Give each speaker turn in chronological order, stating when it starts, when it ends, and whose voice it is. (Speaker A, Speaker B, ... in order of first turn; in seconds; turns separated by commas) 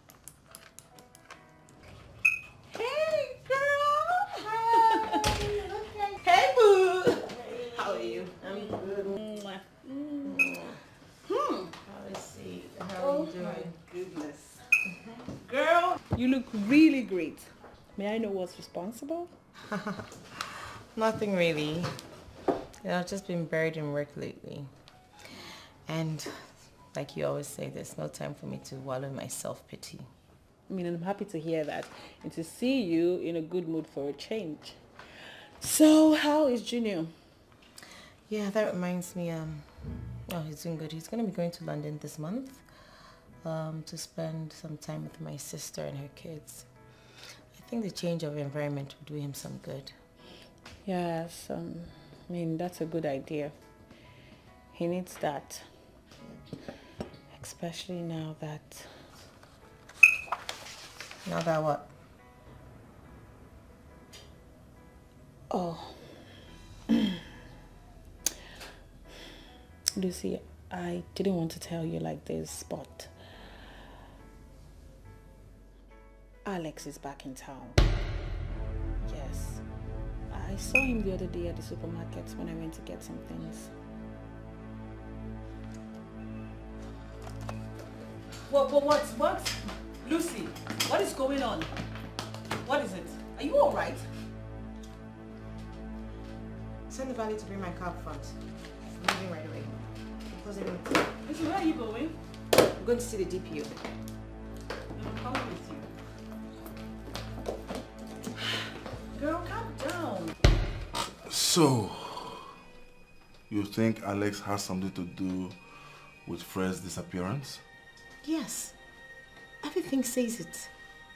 Speaker A: 2.7-5.3, Speaker B: 4.3-6.2, Speaker A: 6.2-10.6, Speaker B: 7.4-9.2, Speaker B: 10.2-10.8, Speaker A: 11.2-11.7, Speaker B: 11.8-13.8, Speaker A: 12.9-14.7, Speaker A: 15.3-19.3, Speaker B: 19.7-21.9, Speaker B: 22.8-24.7, Speaker B: 25.9-30.1, Speaker A: 30.7-37.1, Speaker B: 38.3-42.7, Speaker B: 43.4-46.7, Speaker B: 47.5-50.0, Speaker A: 50.8-53.6, Speaker A: 54.7-55.7, Speaker A: 57.3-59.1, Speaker B: 61.2-61.9, Speaker A: 65.5-66.2, Speaker A: 70.0-73.4, Speaker A: 76.5-77.9, Speaker A: 79.0-79.6, Speaker A: 80.3-83.7, Speaker A: 88.5-91.7, Speaker A: 92.6-94.1, Speaker B: 96.9-101.1, Speaker A: 101.2-102.2, Speaker B: 102.7-103.8, Speaker A: 105.0-105.9, Speaker A: 109.1-110.3, Speaker C: 111.2-112.5, Speaker C: 113.5-117.6, Speaker B: 118.2-118.8, Speaker B: 119.6-120.7